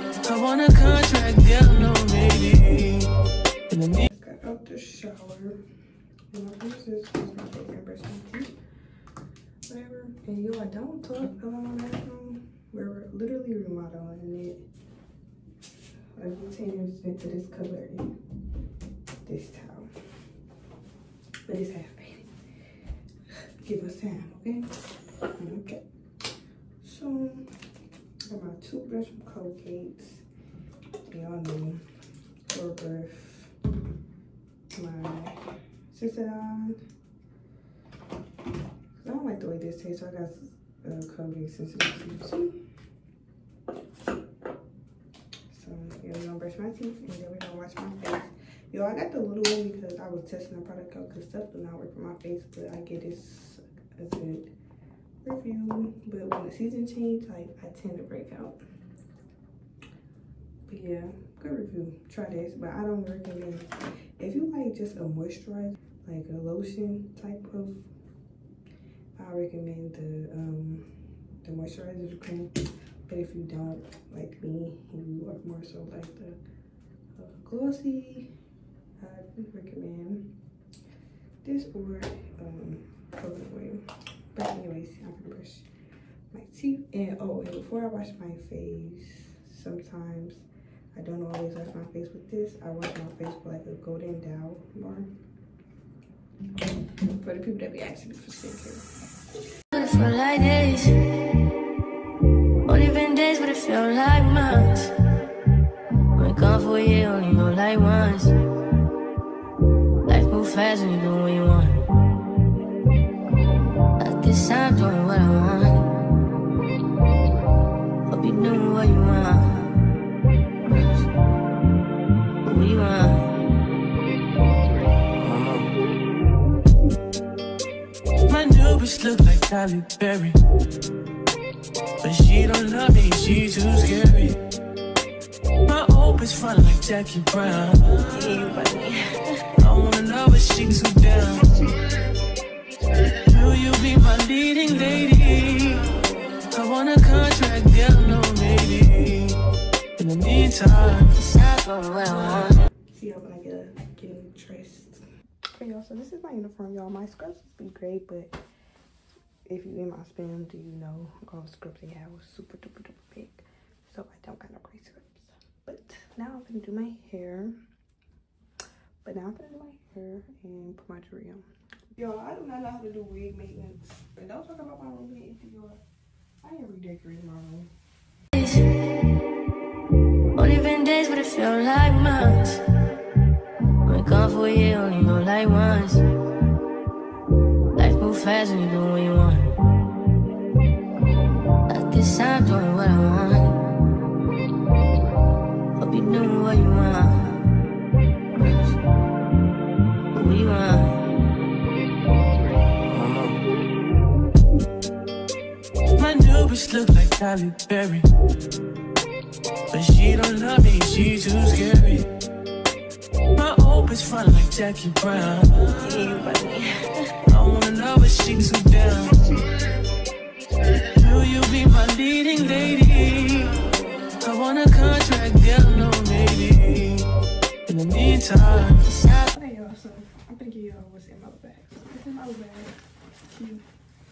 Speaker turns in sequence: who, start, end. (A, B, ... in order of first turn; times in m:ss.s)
0:00.2-0:03.1 A
0:03.7-0:04.1 A
0:04.1-0:05.6 B
0:06.3-0:08.5 B
0:09.7-0:14.6 B
0:16.2-0:18.1 B
0:19.2-0:19.9 B
0:21.4-0:22.3 B
0:23.6-0:24.7 B
0:25.4-0:25.8 B
0:26.8-0:27.5 B
0:28.3-0:30.2 B
0:31.1-0:31.8 B
0:32.5-0:33.5 B
0:34.7-0:36.8 B
0:39.0-0:42.6 B
0:45.5-0:54.5 B
0:55.2-0:58.6 B
1:00.7-1:07.9 B
1:09.2-1:10.9 B
1:11.4-1:16.4 B
1:17.2-1:18.3 B
1:19.0-1:20.3 B
1:21.4-1:25.7 B
1:26.3-1:35.1 B
1:37.1-1:38.9 B
1:39.7-1:41.0 C
1:42.7-1:44.9 C
1:46.2-1:48.4 C
1:50.1-1:51.8 C
1:54.0-1:55.9 C
1:58.1-1:59.7 C
2:02.4-2:03.3 C
2:05.2-2:05.6 A
2:08.3-2:10.4 A
2:12.0-2:14.4 A
2:15.7-2:18.1 A
2:18.1-2:19.3 B
2:19.6-2:21.5 A
2:23.2-2:25.9 A
2:26.5-2:29.4 A
2:30.0-2:31.1 A
2:31.2-2:32.6 C
2:32.9-2:35.0 B
2:35.6-2:38.4 B
2:39.5-2:47.6 B
2:49.0-2:55.8 B
2:56.4-2:57.7 B
3:00.4-3:02.6 C
3:03.8-3:06.0 C
3:07.8-3:09.5 C
3:11.7-3:13.6 C
3:15.8-3:17.4 C
3:20.1-3:21.0 C
3:22.9-3:23.3 A
3:26.0-3:28.1 A
3:29.7-3:32.1 A
3:33.4-3:35.7 A
3:35.8-3:37.1 B
3:37.3-3:39.2 A
3:40.9-3:43.6 A
3:44.2-3:47.1 A
3:47.7-3:48.9 A
3:48.9-3:49.3 C
3:49.3-3:53.6 B